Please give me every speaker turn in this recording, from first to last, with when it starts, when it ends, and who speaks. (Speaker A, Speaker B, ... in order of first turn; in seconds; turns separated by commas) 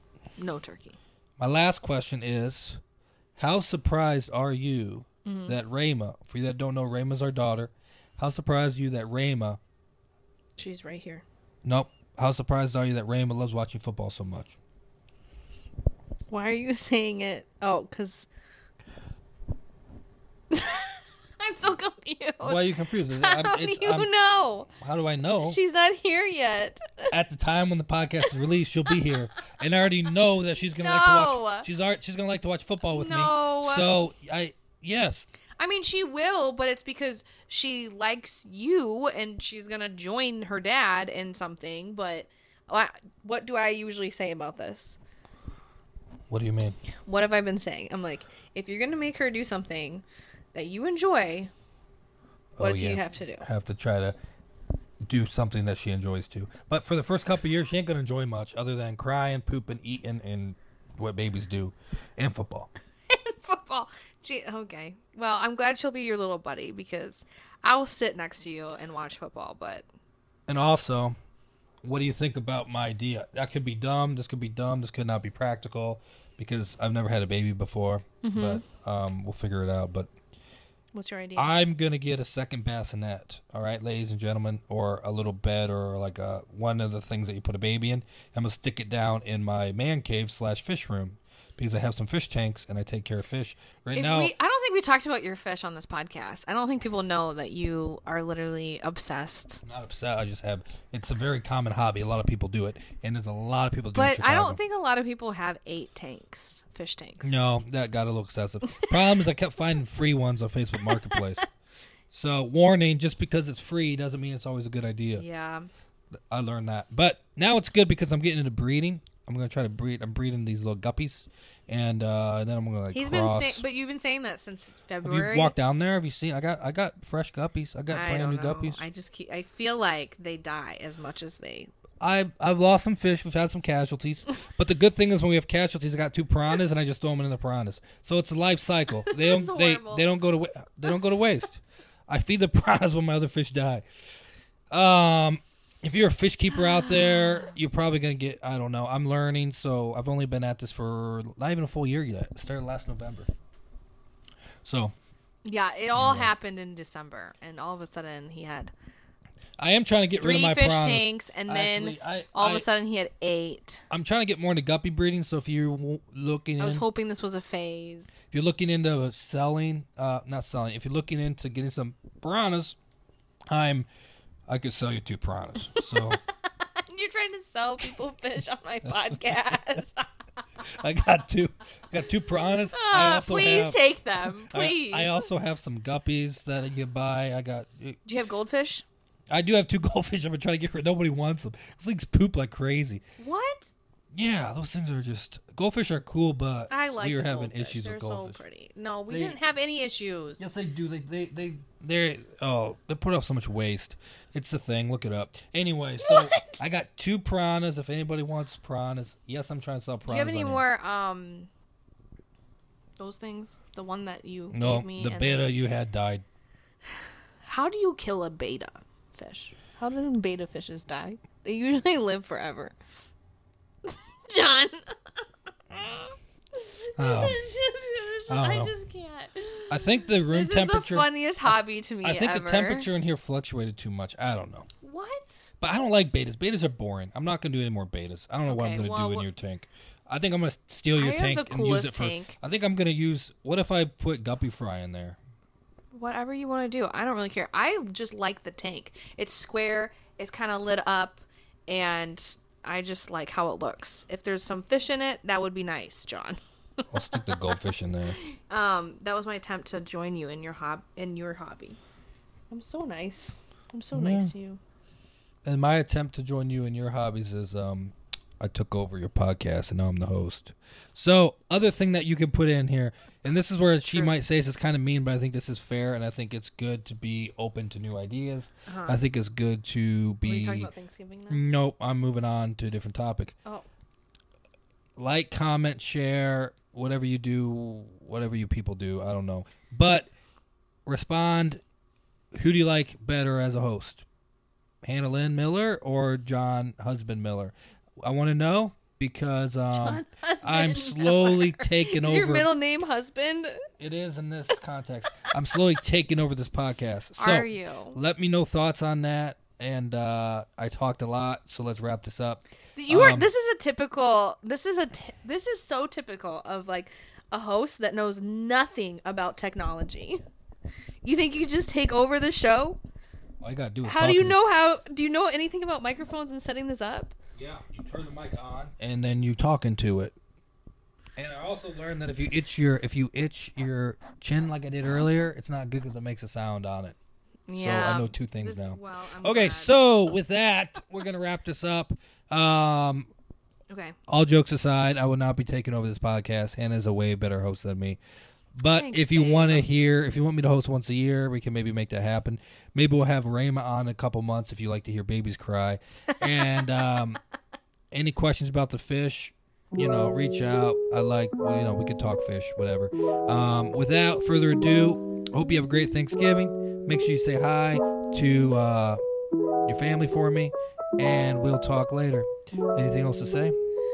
Speaker A: 0.4-1.0, Speaker B: 1.4-2.8, Speaker B: 3.4-9.6, Speaker A: 5.3-5.6, Speaker A: 10.6-11.2, Speaker B: 11.6-14.6, Speaker A: 16.3-18.3, Speaker A: 20.5-24.7, Speaker B: 22.4-24.1, Speaker B: 24.8-25.6, Speaker A: 25.4-27.1, Speaker B: 27.1-35.3, Speaker A: 30.8-31.7, Speaker A: 32.9-33.9, Speaker A: 35.6-45.0, Speaker B: 46.3-46.8, Speaker A: 47.1-51.5, Speaker B: 52.6-54.2, Speaker A: 52.6-53.5, Speaker B: 55.0-62.7, Speaker A: 63.1-69.9, Speaker B: 70.5-71.2, Speaker B: 71.8-80.1, Speaker A: 78.2-78.6, Speaker A: 80.9-81.5, Speaker B: 81.4-94.3, Speaker A: 93.9-99.6, Speaker B: 99.6-104.6, Speaker A: 103.9-107.4, Speaker B: 107.2-111.5, Speaker A: 110.8-111.2, Speaker B: 112.1-115.2, Speaker A: 115.2-115.7, Speaker B: 116.3-123.6, Speaker A: 122.9-125.5, Speaker B: 125.0-128.8, Speaker A: 127.9-131.7, Speaker B: 132.0-144.2, Speaker A: 139.1-140.1, Speaker B: 144.7-153.3, Speaker B: 154.7-154.9, Speaker A: 155.4-158.7, Speaker B: 155.9-156.3, Speaker B: 159.6-162.7, Speaker A: 160.1-163.9, Speaker B: 163.9-166.8, Speaker A: 166.6-168.2, Speaker B: 168.3-172.8, Speaker B: 173.5-173.9, Speaker B: 174.5-176.2, Speaker A: 175.8-180.1, Speaker B: 180.8-188.0, Speaker A: 182.6-185.3, Speaker A: 188.1-188.8, Speaker B: 189.3-193.0, Speaker A: 193.2-193.7, Speaker B: 194.1-198.4, Speaker A: 196.7-200.4, Speaker B: 199.1-199.4, Speaker B: 200.4-210.6, Speaker A: 206.0-206.6, Speaker A: 210.1-211.5, Speaker A: 213.0-215.5, Speaker B: 214.5-216.2, Speaker A: 217.4-222.8, Speaker A: 223.9-224.9, Speaker A: 225.7-232.9, Speaker B: 227.0-227.4, Speaker B: 228.3-228.8, Speaker B: 229.7-234.7, Speaker A: 234.8-235.4, Speaker B: 235.6-245.2, Speaker A: 238.5-239.3, Speaker A: 240.9-242.4, Speaker A: 245.9-256.4, Speaker B: 256.9-258.2, Speaker A: 257.1-257.4, Speaker A: 258.1-261.8, Speaker A: 262.5-264.6, Speaker B: 263.9-264.3, Speaker B: 265.5-280.7, Speaker A: 273.9-274.2, Speaker A: 278.7-279.0, Speaker A: 280.2-281.4, Speaker B: 281.3-283.3, Speaker B: 285.0-290.1, Speaker B: 290.9-291.6, Speaker B: 292.3-294.1, Speaker B: 294.8-302.5, Speaker A: 299.7-303.6, Speaker B: 303.8-313.3, Speaker A: 307.2-308.0, Speaker A: 312.8-320.2, Speaker A: 321.0-322.8, Speaker B: 323.4-324.4, Speaker A: 323.8-327.1, Speaker B: 327.4-330.1, Speaker B: 331.2-337.0, Speaker A: 337.5-339.7, Speaker B: 337.5-343.1, Speaker A: 343.7-344.0, Speaker B: 344.1-348.0, Speaker B: 348.6-357.2, Speaker A: 348.7-349.7, Speaker A: 356.2-356.7, Speaker B: 357.9-369.0, Speaker B: 369.7-373.6